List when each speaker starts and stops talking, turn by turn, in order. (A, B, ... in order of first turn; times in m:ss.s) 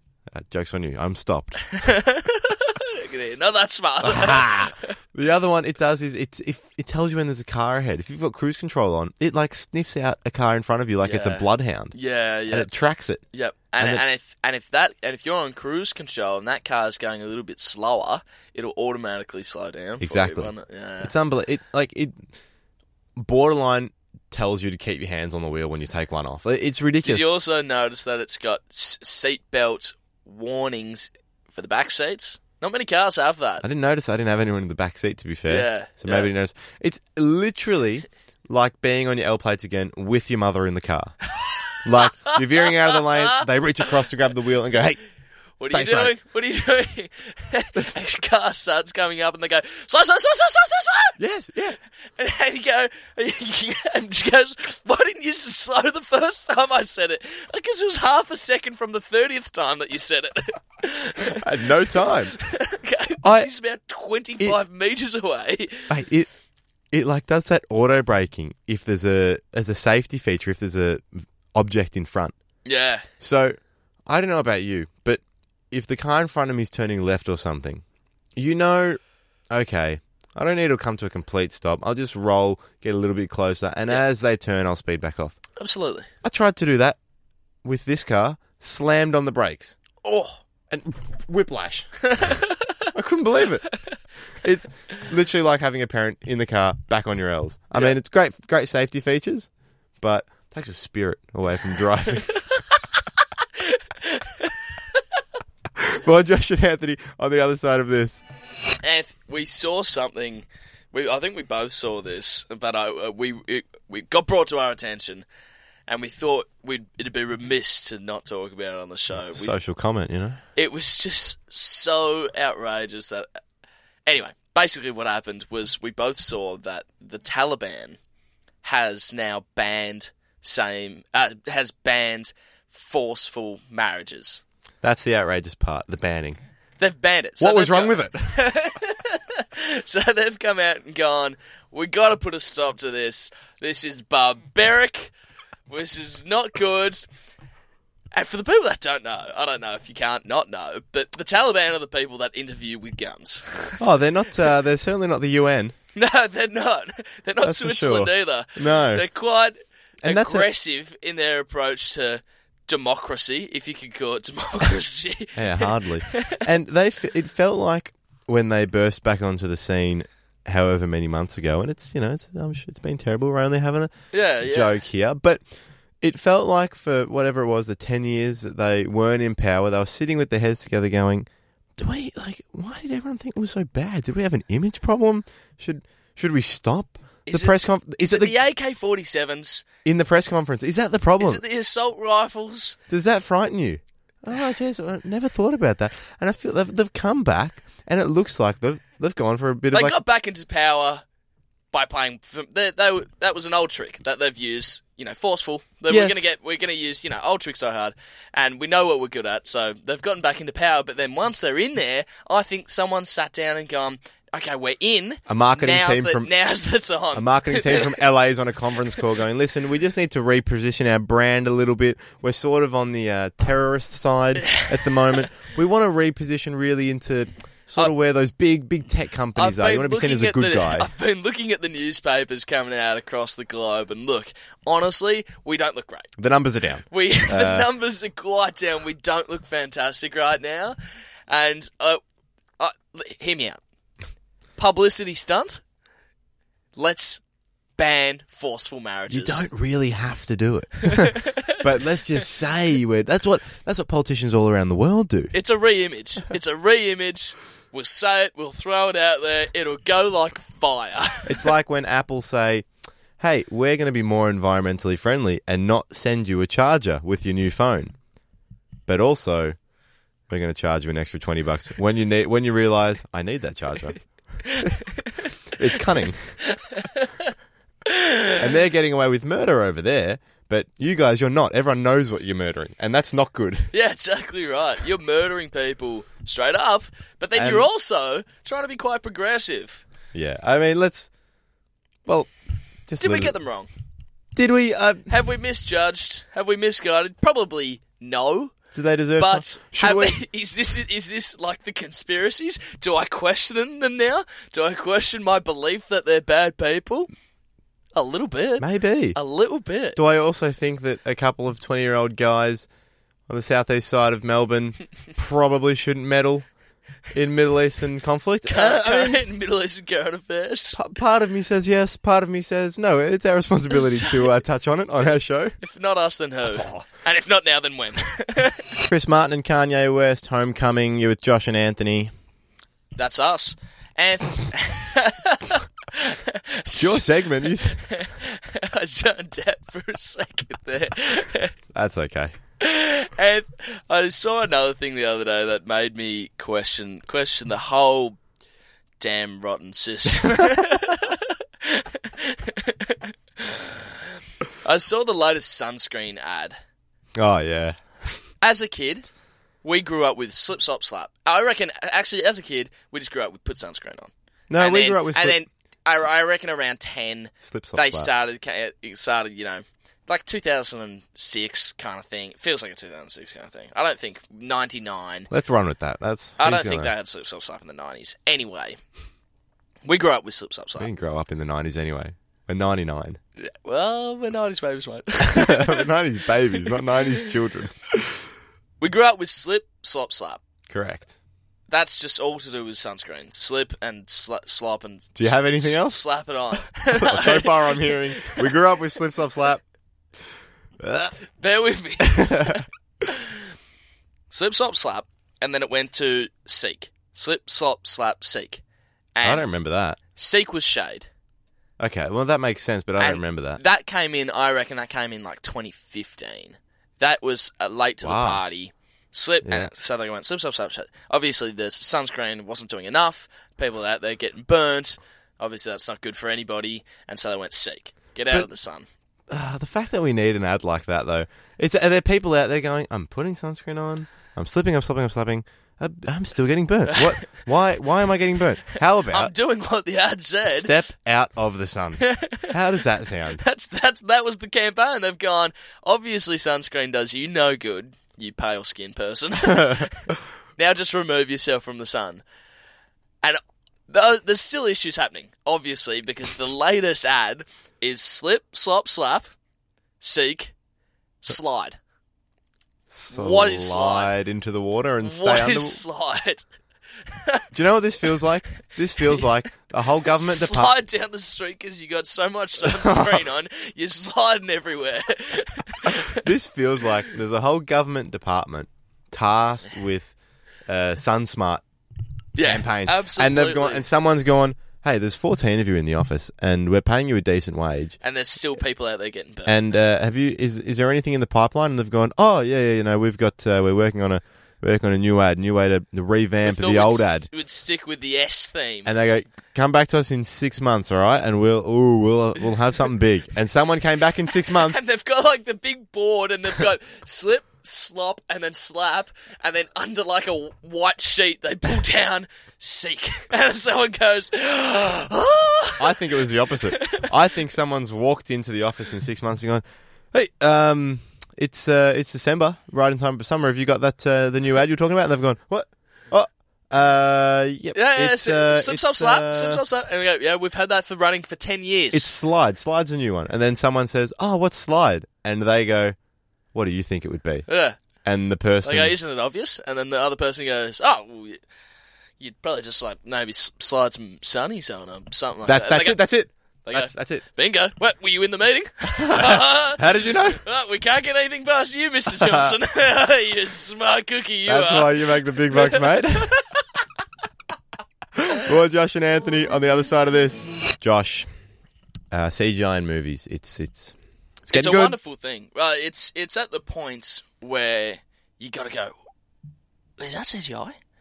0:00.3-0:01.7 A
0:01.7-0:05.0 B
0:04.0-0:11.9 A
0:11.0-0:12.7 B
0:12.5-0:13.2 A
0:13.3-0:21.1 B
0:13.8-0:14.0 A
0:20.0-0:22.3 A
0:23.2-0:27.3 A
0:27.0-0:33.6 B
0:33.6-0:41.2 A
0:35.5-0:36.3 B
0:41.8-0:45.0 A
0:45.6-0:51.2 B
0:45.7-0:46.2 A
0:51.2-0:51.8 A
0:52.2-1:01.4 B
1:01.3-1:02.3 A
1:02.0-1:05.9 B
1:03.2-1:03.5 A
1:05.9-1:06.3 A
1:06.9-1:12.4 A
1:12.6-1:13.1 B
1:13.2-1:17.8 A
1:18.4-1:25.4 A
1:25.6-1:26.1 B
1:26.2-1:27.0 A
1:27.6-1:29.8 A
1:30.0-1:30.4 B
1:30.7-1:31.9 A
1:32.1-1:32.8 B
1:32.9-1:33.7 A
1:34.4-1:39.5 A
1:40.0-1:42.4 A
1:43.6-1:44.5 B
1:45.8-1:48.2 A
1:48.8-1:55.2 B
1:55.9-1:59.6 B
1:59.3-2:00.4 A
2:00.6-2:03.3 B
2:04.0-2:08.0 B
2:08.6-2:14.4 B
2:14.8-2:16.4 A
2:16.8-2:25.1 B
2:17.4-2:18.4 A
2:25.7-2:27.0 B
2:28.1-2:33.8 B
2:33.8-2:35.7 A
2:35.9-2:46.4 B
2:37.4-2:39.0 A
2:40.0-2:40.5 A
2:45.3-2:55.4 A
2:54.1-2:54.7 B
2:56.0-3:08.3 A
3:07.3-3:09.6 B
3:09.8-3:11.4 A
3:11.2-3:12.8 B
3:12.9-3:20.0 A
3:19.7-3:21.0 B
3:21.7-3:38.0 B
3:25.9-3:26.3 A
3:35.3-3:36.3 A
3:37.1-3:50.9 A
3:44.4-3:45.2 B
3:49.4-3:56.1 B
3:56.2-3:57.7 A
3:56.9-4:00.8 B
4:01.3-4:02.0 B
4:02.6-4:03.6 B
4:04.6-4:05.6 B
4:06.8-4:07.2 B
4:07.8-4:09.4 B
4:09.1-4:15.3 A
4:10.9-4:11.6 B
4:15.3-4:21.4 B
4:21.3-4:22.6 A
4:23.2-4:27.9 A
4:28.9-4:29.6 A
4:30.3-4:34.0 A
4:34.5-4:35.3 B
4:35.5-4:36.4 A
4:36.5-4:37.3 B
4:37.8-4:38.4 B
4:38.4-4:43.7 A
4:43.7-4:49.8 B
4:47.4-4:47.7 A
4:50.1-4:51.1 A
4:52.0-4:52.3 A
4:52.9-4:53.3 A
4:53.0-4:53.7 B
4:54.4-4:55.1 A
4:55.1-4:58.5 B
4:58.7-5:00.2 A
4:59.2-5:07.1 B
5:07.9-5:10.0 B
5:08.6-5:09.2 A
5:09.9-5:12.7 A
5:13.3-5:16.5 A
5:17.1-5:19.2 A
5:18.5-5:20.8 B
5:20.8-5:25.6 A
5:23.7-5:24.3 B
5:25.6-5:28.7 B
5:26.5-5:26.8 A
5:28.8-5:32.1 A
5:33.0-5:41.5 B
5:36.8-5:37.8 A
5:41.7-5:42.3 A
5:42.6-5:48.2 B
5:49.0-5:53.8 B
5:54.6-5:56.6 B
5:57.2-5:58.2 A
5:58.4-5:59.1 B
5:59.6-6:15.3 B
6:04.5-6:05.4 A
6:07.4-6:08.1 A
6:15.3-6:16.9 A
6:16.4-6:18.8 B
6:19.8-6:20.9 B
6:20.8-6:23.2 A
6:23.4-6:25.9 B
6:25.2-6:28.2 A
6:28.8-6:30.4 B
6:30.7-6:31.1 A
6:31.7-6:38.5 B
6:35.2-6:36.0 A
6:36.9-6:39.6 A
6:40.8-6:41.2 A
6:41.4-6:42.6 B
6:42.0-6:42.6 A
6:44.3-6:48.6 B
6:49.1-6:49.5 B
6:49.2-6:50.0 A
6:50.1-6:51.1 B
6:51.8-6:53.6 A
6:53.0-7:08.8 B
6:58.0-6:58.4 A
6:59.4-6:59.7 A
7:09.3-7:19.3 A
7:16.9-7:17.2 B
7:19.1-7:20.7 B
7:20.4-7:23.4 A
7:22.0-7:22.5 B
7:23.4-7:32.2 B
7:33.2-7:39.3 B
7:40.0-7:40.5 B
7:41.2-7:41.8 B
7:42.9-7:45.8 A
7:43.1-7:44.1 B
7:45.0-7:46.4 B
7:47.1-7:47.5 B
7:47.5-7:50.8 A
7:50.1-7:56.2 B
7:52.6-7:53.2 A
7:56.1-8:00.1 A
8:00.6-8:01.6 A
8:02.4-8:03.8 B
8:02.4-8:08.0 A
8:08.0-8:09.6 B
8:09.4-8:17.3 A
8:16.4-8:18.9 B
8:18.8-8:24.8 A
8:24.5-8:36.0 B
8:35.8-8:49.6 A
8:36.7-8:37.1 B
8:47.7-8:52.1 B
8:51.9-8:55.9 A
8:56.5-8:57.5 A
8:57.5-8:57.8 B
8:58.0-8:58.9 A
8:58.6-9:01.4 B
9:02.2-9:06.0 B
9:05.4-9:07.2 A
9:06.6-9:09.8 B
9:09.0-9:10.4 A
9:10.3-9:16.4 B
9:12.2-9:12.6 A
9:14.4-9:16.4 A
9:18.1-9:21.3 A
9:22.1-9:23.9 A
9:24.5-9:29.0 B
9:24.5-9:25.0 A
9:30.0-9:30.8 B